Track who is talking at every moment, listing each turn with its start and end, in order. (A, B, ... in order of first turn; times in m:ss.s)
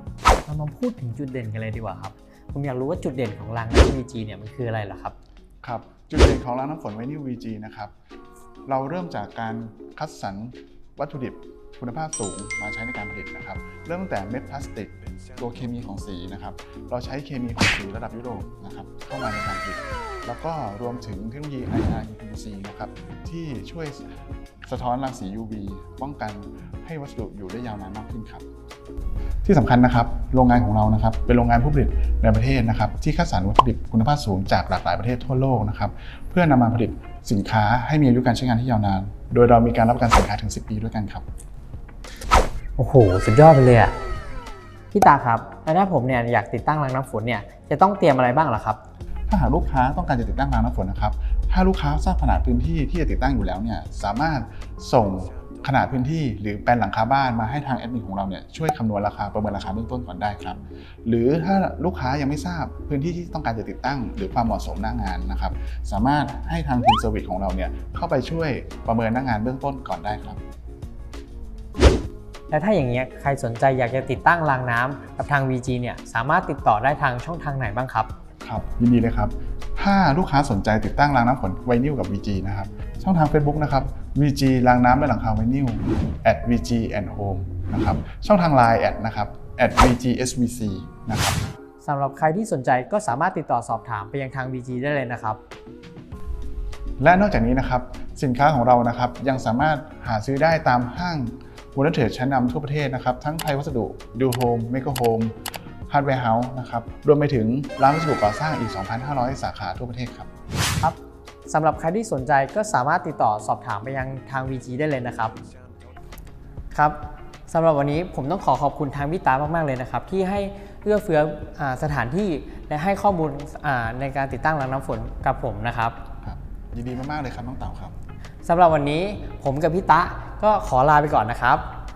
0:00.4-0:05.2 A
0:05.6-0:07.9 B
0:08.6-0:28.5 B
0:29.4-0:41.2 B
0:42.8-0:44.0 A
0:44.9-0:48.8 A
0:49.3-1:10.4 B
1:12.5-1:18.1 A
1:18.4-1:31.4 B
1:31.8-1:35.4 A
1:37.0-1:45.3 B
1:45.9-1:50.3 B
1:50.8-1:55.4 A
1:56.7-2:06.0 A
2:06.2-2:08.0 B
2:08.4-2:11.7 A